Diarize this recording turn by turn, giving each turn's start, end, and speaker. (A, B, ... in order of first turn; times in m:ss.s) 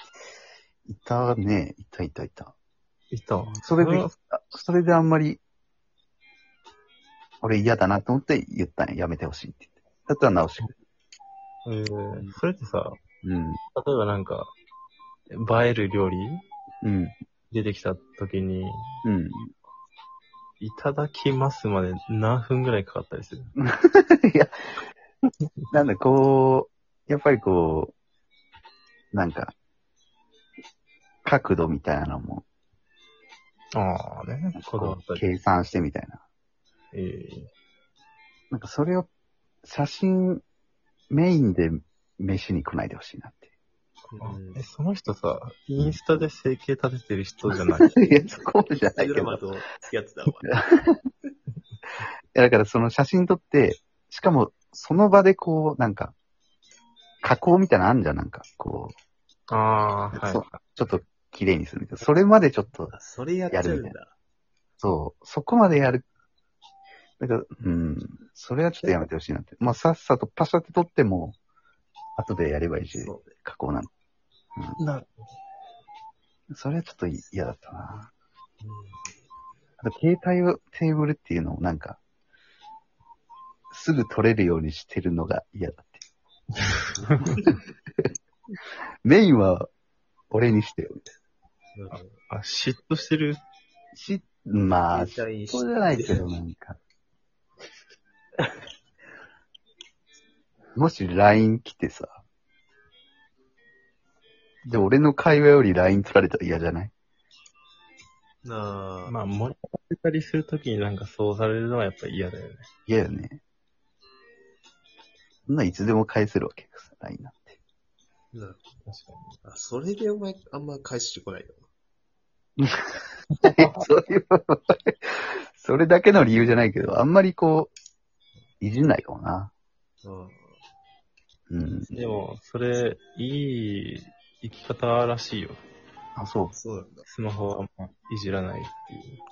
0:00.8-0:02.5 A
0:03.1-0:04.1 B
0:03.6-0:05.4 A
0:07.4-0:10.7 A
0:11.6-0:13.0 B
0:13.2-0:13.6 A
0:13.7-0:14.5 B
0:15.3-0:16.4 B
0:16.8-0:17.1 A
0:17.5-0:19.0 B
0:19.0-0:19.5 A
0:20.6-0:23.5 B
0:23.6-0:24.5 A
0:25.7-0:27.9 A
0:29.1-0:29.5 A
0:31.2-0:32.4 A
0:33.8-0:35.2 B
0:34.5-0:36.2 A
0:36.9-0:37.5 B
0:38.5-0:39.1 A
0:39.6-0:40.4 A
0:41.1-0:43.5 A
0:44.1-0:44.6 C
0:44.2-0:48.0 B
0:47.9-0:49.4 A
0:48.9-0:50.5 C
0:50.5-0:51.0 A
0:52.3-0:56.1 A
0:57.2-0:58.9 A
0:59.5-1:00.6 B
1:00.1-1:02.9 A
1:02.9-1:04.1 C
1:03.5-1:04.0 A
1:04.8-1:06.0 A
1:07.2-1:11.4 A
1:12.2-1:13.9 A
1:12.9-1:13.3 C
1:14.8-1:15.1 B
1:16.5-1:18.1 A
1:18.6-1:19.0 C
1:19.8-1:22.0 A
1:23.7-1:26.0 A
1:27.0-1:27.4 C
1:29.0-1:29.7 A
1:30.3-1:31.0 A
1:31.7-1:32.2 C
1:31.9-1:33.4 B
1:33.9-1:36.8 A
1:34.9-1:36.3 C
1:40.8-1:42.2 A
1:44.6-1:46.9 A
1:48.4-1:49.2 C
1:49.0-1:52.7 B
1:52.9-1:53.4 A
1:55.5-1:57.6 A
1:58.3-1:58.6 C
1:58.8-1:59.4 B
1:59.4-2:01.6 C
2:02.6-2:02.9 A
2:03.4-2:03.8 B
2:03.5-2:07.7 A
2:08.6-2:09.5 A
2:10.0-2:10.5 C
2:11.5-2:12.2 A
2:11.9-2:15.6 B
2:16.2-2:16.5 A
2:16.6-2:17.0 C
2:17.1-2:19.2 B